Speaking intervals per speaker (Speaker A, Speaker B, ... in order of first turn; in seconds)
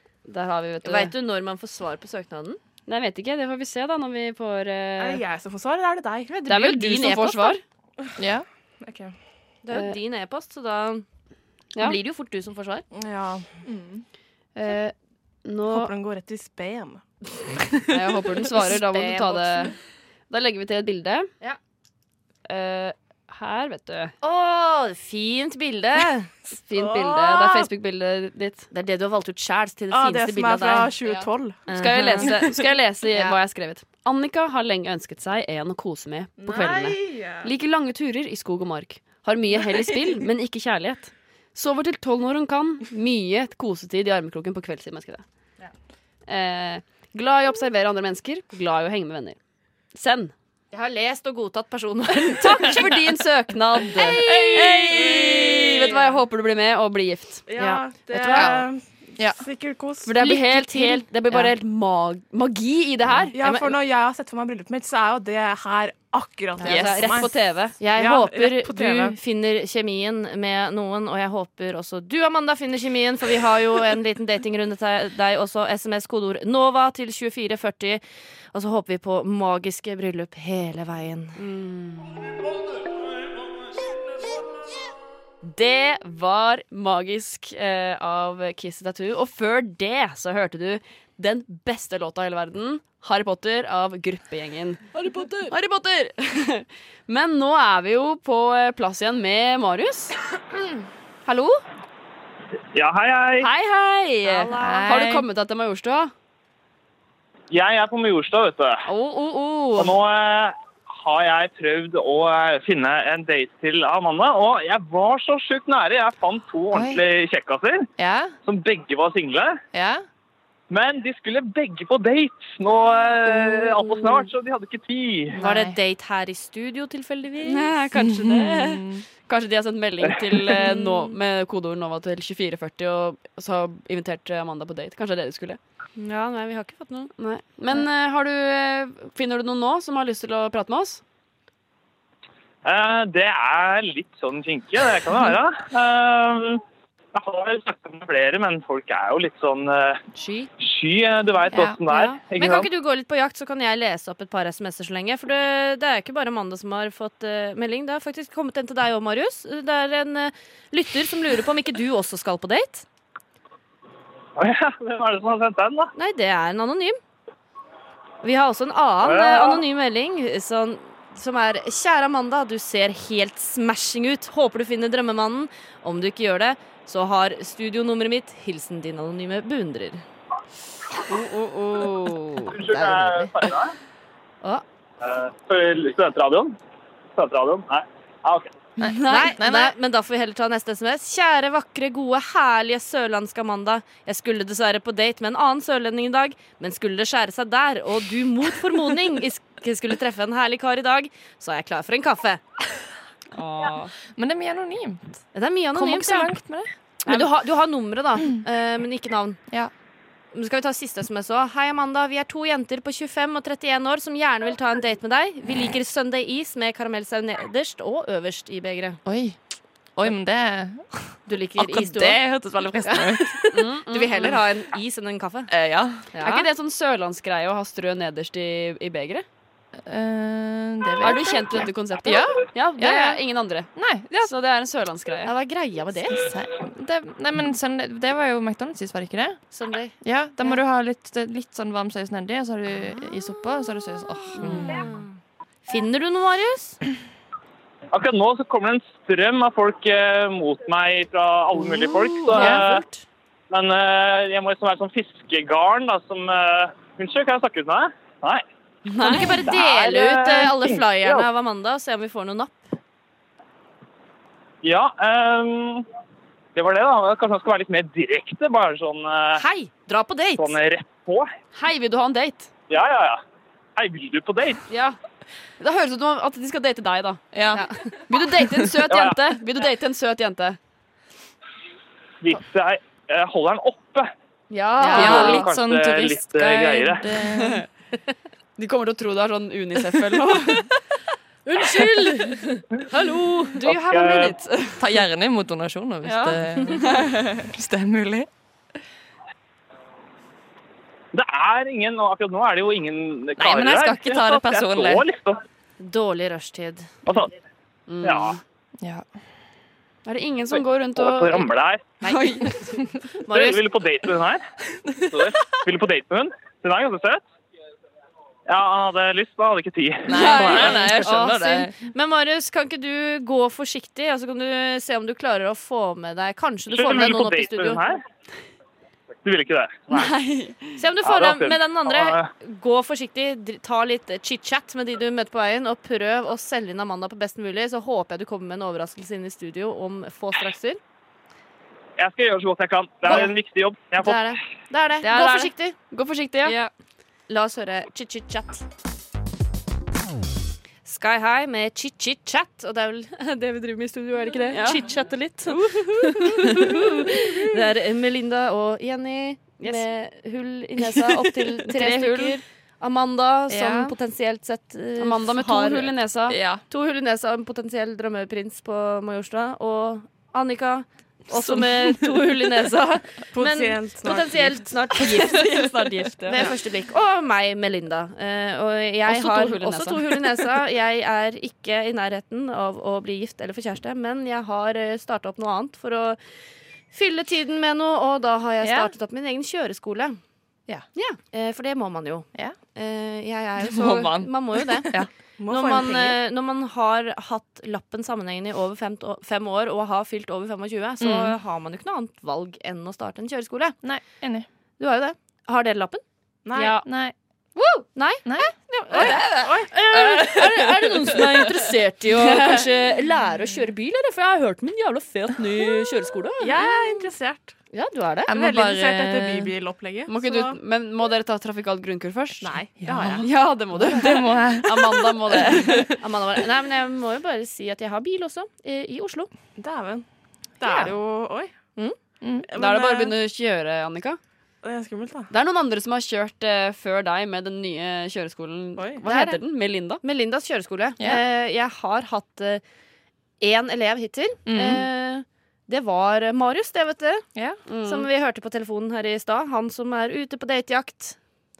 Speaker A: 0.3-1.1, 2.9-5.2, 6.5-7.6, 14.6-14.9, 15.4-15.9, 17.9-19.7, 20.3-21.3, 22.5-24.1, 26.7-28.7, 31.7-45.2, 46.3-49.4, 49.9-50.3, 52.4-57.5, 58.1-58.5, 60.0-63.4, 66.6-67.8, 81.4-82.1, 85.4-100.1, 101.3-101.6, 103.4-106.1, 108.9-110.0, 127.4-135.6, 137.2-141.0, 181.1-182.5, 188.8-189.3, 203.3-203.9, 223.5-224.4, 226.2-229.2, 231.0-235.3, 244.4-244.8, 258.9-259.4, 271.5-272.5, 274.7-275.0, 275.6-280.6, 284.5-285.5, 287.4-287.6, 288.6-290.7, 293.6-294.8, 296.1-297.2, 307.9-308.4, 310.1-311.5, 312.0-312.8, 320.1-321.1, 329.9-330.8, 345.0-346.6, 354.5-354.9, 355.5-356.8, 361.6-362.4, 365.0-366.4, 371.4-372.0, 374.9-376.4, 379.1-380.2, 406.6-406.9, 412.2-412.6, 420.1-422.5, 423.2-425.9, 432.6-434.2, 435.3-440.0, 447.7-448.1
Speaker B: 0.8-2.6, 6.3-7.6, 9.7-11.0, 11.8-12.9, 18.5-19.8, 24.2-26.3, 28.7-32.4, 50.7-52.9, 57.6-58.5, 60.2-61.5, 63.3-63.7, 67.8-78.0, 78.5-81.4, 104.2-105.0, 125.4-127.8, 130.6-131.1, 136.0-137.1, 150.2-150.5, 151.9-162.8, 166.0-167.0, 168.2-180.0, 182.6-183.3, 189.1-202.4, 205.3-206.4, 207.1-209.4, 210.3-219.0, 221.3-225.5, 226.1-226.5, 232.8-233.2, 235.2-236.3, 239.5-240.6, 244.4-245.2, 245.7-246.8, 251.9-253.0, 259.0-262.6, 269.4-270.6, 284.8-285.5, 291.4-294.3, 305.8-306.9, 312.0-312.5, 313.2-313.7, 320.2-327.8, 330.8-340.8, 343.1-343.3, 344.0-345.8, 347.3-348.6, 350.9-365.9, 366.7-375.7, 376.3-386.2, 386.9-390.2, 391.3-395.0, 395.5-403.8, 404.8-406.0, 407.6-417.1, 417.7-418.4, 425.9-429.3, 430.6-430.9, 439.1-439.4, 440.0-442.6, 443.4-447.2, 447.8-451.2
Speaker C: 5.0-6.5, 8.8-9.2, 12.9-14.0, 15.7-17.0, 26.7-27.7, 29.9-31.6, 36.4-37.5, 54.2-55.9, 57.5-60.1, 63.3-67.3, 67.9-69.2, 373.3-374.6, 395.4-396.2, 406.5-406.8, 408.9-409.7, 416.4-417.6, 418.3-420.6, 422.4-423.3, 429.6-430.1, 430.6-431.5, 432.5-433.2, 434.6-435.3, 438.8-439.0
Speaker D: 8.2-8.4, 54.2-54.7, 58.4-58.6, 66.7-67.1, 104.6-105.3, 116.7-117.0, 118.0-118.3, 119.7-120.0, 125.3-125.8, 128.0-129.1, 151.5-151.8, 188.8-189.7, 204.1-205.2, 205.7-207.2, 219.1-219.4, 220.0-223.5, 225.5-226.1, 229.9-232.5, 233.8-234.3, 236.1-239.4, 240.0-244.9, 252.4-252.6, 277.3-277.6, 284.9-287.6, 294.8-298.3, 303.4-305.1, 308.8-309.1, 320.1-321.8, 363.5-363.9, 366.3-366.6, 388.6-388.9, 393.6-395.1, 401.0-401.3, 403.8-404.4, 406.8-407.1, 408.2-409.3, 410.1-410.4, 418.3-419.5, 422.8-423.2, 423.8-425.9, 432.2-432.5, 444.5-444.9
Speaker E: 102.7-103.5, 107.5-108.8, 109.8-117.9, 118.5-119.6, 120.7-125.3, 142.7-146.6, 147.2-150.0, 150.6-152.7, 164.4-165.9, 169.0-169.6, 182.5-183.7, 185.0-186.6, 187.2-188.5, 247.9-252.8, 253.5-258.4, 259.4-261.3, 264.6-265.9, 266.6-269.4, 270.4-271.3, 272.7-273.2, 273.8-274.6, 278.9-279.2, 282.2-284.1, 284.9-287.0, 293.7-294.3, 301.1-305.4, 308.0-308.4, 311.0-311.8, 313.3-314.4, 315.1-317.2, 318.5-320.8, 326.7-328.0, 329.2-330.1, 331.0-332.3, 342.0-344.3